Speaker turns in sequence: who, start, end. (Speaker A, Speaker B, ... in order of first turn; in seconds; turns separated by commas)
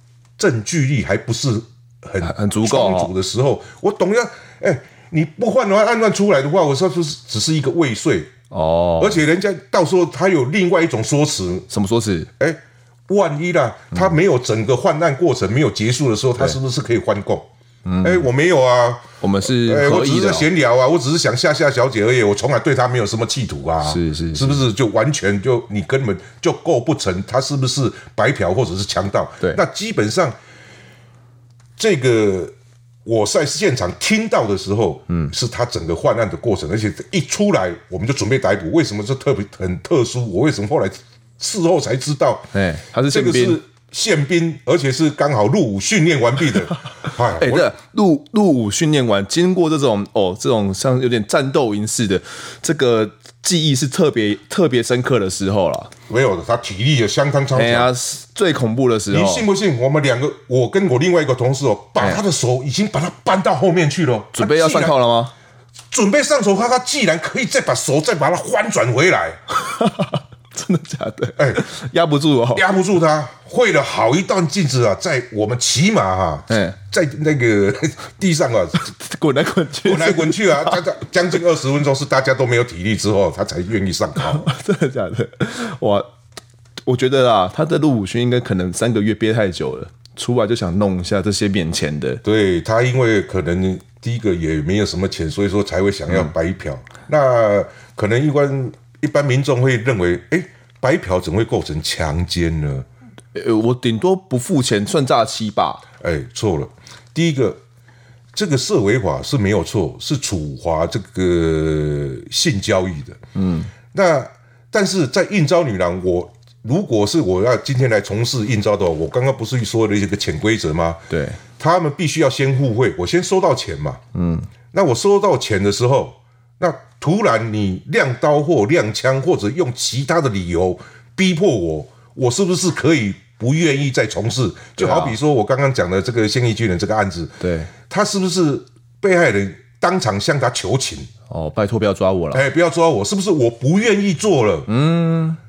Speaker A: 0.4-8.3, Speaker B: 2.2-3.1, Speaker B: 8.5-9.2, Speaker A: 9.0-11.7, Speaker B: 11.7-12.3, Speaker A: 12.4-17.5, Speaker B: 17.8-18.3, Speaker A: 18.0-30.4, Speaker B: 19.2-20.5, Speaker B: 23.8-24.6, Speaker A: 31.8-32.5, Speaker A: 33.0-42.5, Speaker B: 42.5-43.6, Speaker A: 43.0-47.7, Speaker B: 47.4-55.9, Speaker A: 56.1-57.9, Speaker B: 57.5-59.5, Speaker A: 59.1-64.9, Speaker B: 64.3-65.3, Speaker A: 65.9-69.4, Speaker B: 69.5-72.7, Speaker A: 71.4-71.6, Speaker A: 72.5-78.9, Speaker B: 76.5-76.8, Speaker B: 78.8-80.8, Speaker A: 79.8-84.5, Speaker B: 84.2-86.1, Speaker B: 86.8-92.2, Speaker A: 92.2-102.8, Speaker B: 103.3-105.8, Speaker A: 106.0-107.6, Speaker A: 108.3-113.2, Speaker B: 113.3-113.7, Speaker A: 113.9-124.0, Speaker B: 121.1-121.4, Speaker B: 124.1-124.5, Speaker A: 124.7-141.1, Speaker B: 134.8-135.2, Speaker B: 137.4-137.7, Speaker B: 141.3-142.4, Speaker A: 142.3-144.7, Speaker B: 144.7-145.4